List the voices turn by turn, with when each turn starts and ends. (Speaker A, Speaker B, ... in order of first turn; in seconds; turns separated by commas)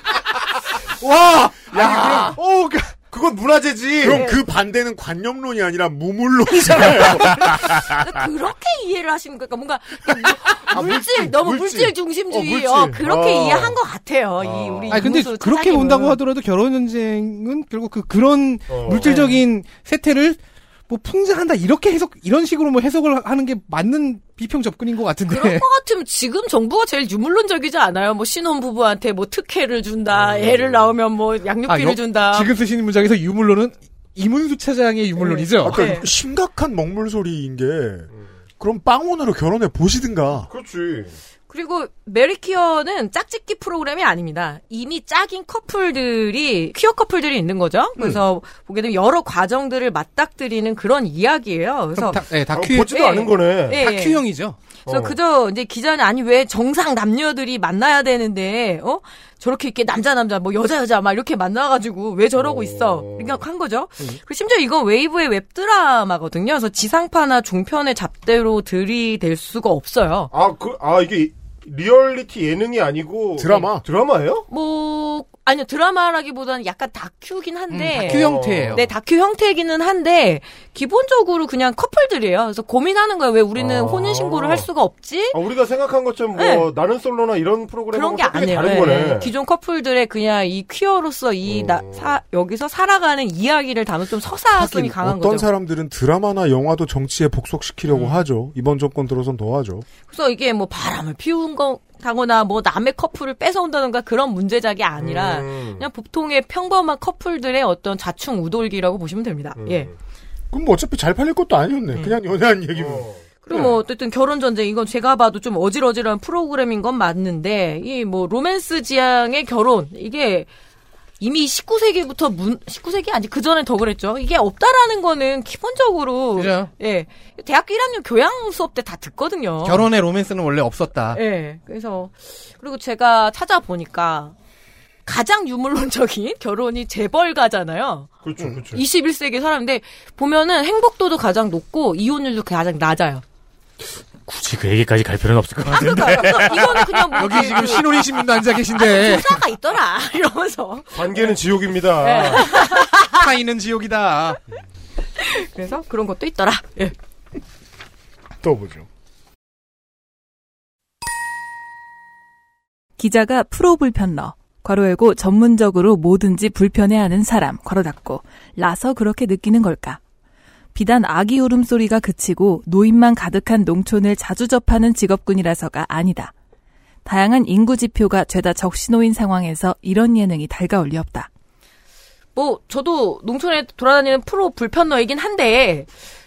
Speaker A: 1.0-3.0, Speaker B: 1.7-2.4, Speaker B: 3.1-4.2, Speaker C: 4.0-7.9, Speaker D: 4.1-4.4, Speaker D: 7.4-16.2, Speaker B: 10.7-13.8, Speaker B: 14.4-15.1, Speaker A: 14.9-25.7, Speaker B: 18.7-19.3, Speaker D: 19.1-19.4, Speaker D: 25.3-32.5, Speaker B: 30.1-30.9, Speaker A: 31.7-35.9, Speaker D: 35.2-36.1, Speaker C: 35.6-40.5, Speaker B: 40.5-41.2, Speaker D: 41.5-52.3, Speaker A: 52.0-52.9, Speaker B: 52.5-53.9, Speaker D: 52.9-54.3, Speaker A: 53.8-54.6, Speaker D: 54.9-70.3, Speaker B: 54.9-55.2, Speaker B: 62.4-63.4, Speaker B: 70.3-74.5, Speaker C: 73.4-73.8, Speaker D: 74.5-85.4, Speaker A: 77.7-78.9, Speaker B: 78.0-78.8, Speaker B: 83.6-84.7, Speaker B: 85.3-89.3, Speaker D: 86.3-86.7, Speaker D: 87.9-95.5, Speaker B: 91.5-92.1, Speaker C: 94.5-99.9, Speaker B: 97.9-98.2, Speaker D: 100.0-109.9, Speaker B: 105.0-105.9, Speaker B: 109.6-109.9, Speaker C: 110.5-113.6, Speaker B: 112.8-113.7, Speaker D: 113.4-120.5, Speaker D: 121.2-129.9, Speaker A: 126.4-126.7, Speaker A: 129.6-131.2, Speaker D: 131.1-134.3, Speaker D: 135.1-138.1, Speaker B: 138.2-138.8, Speaker D: 138.6-143.2, Speaker E: 144.3-146.9, Speaker D: 145.7-148.1, Speaker A: 147.1-149.4, Speaker D: 148.7-151.3, Speaker B: 150.9-152.5, Speaker D: 152.0-153.2, Speaker A: 153.1-154.4, Speaker D: 155.2-156.9, Speaker C: 158.4-158.9, Speaker F: 163.0-170.0, Speaker F: 170.8-176.3, Speaker F: 177.1-181.3, Speaker D: 182.3-185.9